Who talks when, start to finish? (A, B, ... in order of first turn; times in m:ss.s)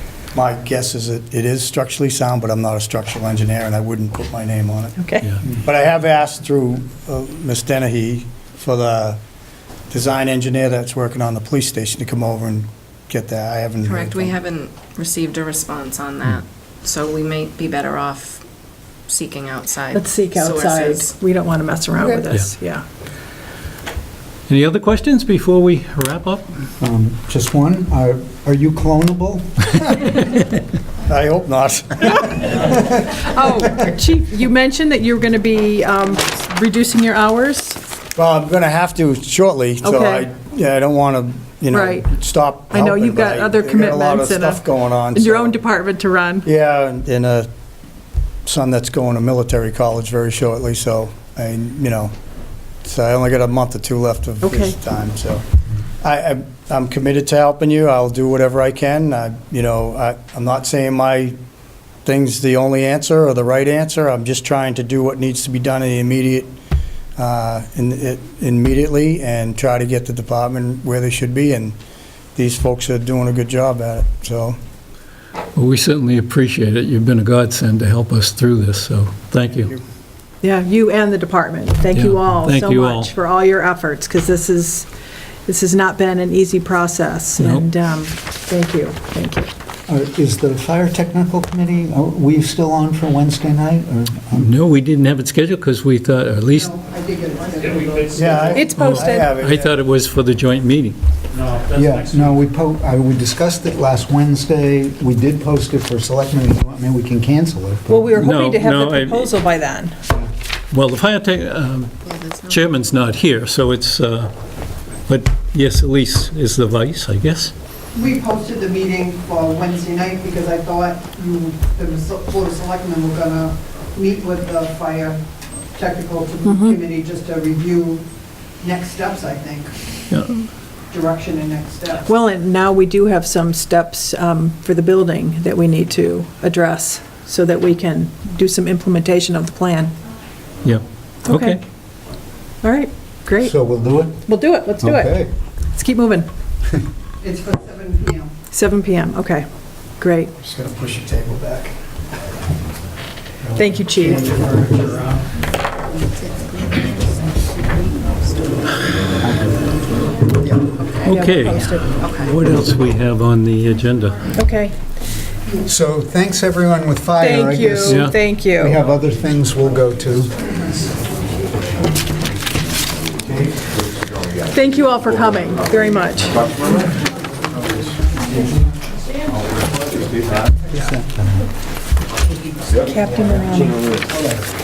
0:00.3-0:09.2 A
0:05.0-0:05.3 B
0:09.9-0:14.4 A
0:13.8-0:18.4 C
0:19.1-0:21.2 C
0:19.9-0:22.8 B
0:24.5-0:26.5 D
0:26.8-0:30.0 E
0:31.1-0:33.2 A
0:33.0-0:37.8 B
0:38.1-0:45.6 A
0:39.8-0:40.3 B
0:41.7-0:42.1 B
0:42.7-0:46.5 B
0:46.4-0:47.5 A
0:48.4-0:52.1 A
0:52.8-0:55.4 A
0:54.4-0:54.8 B
0:56.0-1:01.4 A
1:02.0-1:06.5 A
1:07.2-1:11.8 A
1:12.4-1:14.6 A
1:15.5-1:19.7 D
1:19.5-1:19.8 A
1:20.4-1:24.9 B
1:21.9-1:23.1 D
1:25.4-1:29.5 B
1:27.4-1:27.7 D
1:29.9-1:34.5 E
1:34.3-1:36.7 D
1:36.5-1:38.5 F
1:38.2-1:39.8 A
1:38.5-1:39.3 B
1:38.7-1:41.0 D
1:41.7-1:48.2 E
1:47.9-1:50.0 B
1:48.2-1:49.3 D
1:50.7-1:54.3 D
1:52.0-1:52.9 C
1:55.1-1:57.5 D
1:57.9-2:05.2 F
2:05.7-2:08.0 F
2:06.4-2:06.8 B
2:08.6-2:09.8 F
2:10.1-2:10.5 D
2:10.9-2:12.0 F
2:12.0-2:19.9 B
2:20.6-2:21.6 D
2:21.2-2:21.6 B
2:22.6-2:23.5 B
2:23.4-2:24.2 E
2:24.2-2:25.2 B
2:24.8-2:25.3 E
2:25.7-2:26.3 B
2:27.2-2:28.3 F
2:28.5-2:29.4 B
2:30.0-2:30.3 B
2:30.4-2:31.8 A
2:33.4-2:35.2 A
2:33.6-2:34.4 B
2:36.2-2:38.2 C
2:39.4-2:39.6 E
2:40.8-2:41.1 C
2:41.0-2:41.9 B
2:41.1-2:44.2 D
2:42.0-2:42.3 C
2:44.3-2:44.7 B
2:45.6-2:50.4 E
2:47.2-2:48.8 B
2:47.9-2:48.2 D
2:54.5-2:56.4 B
3:02.8-3:03.9 B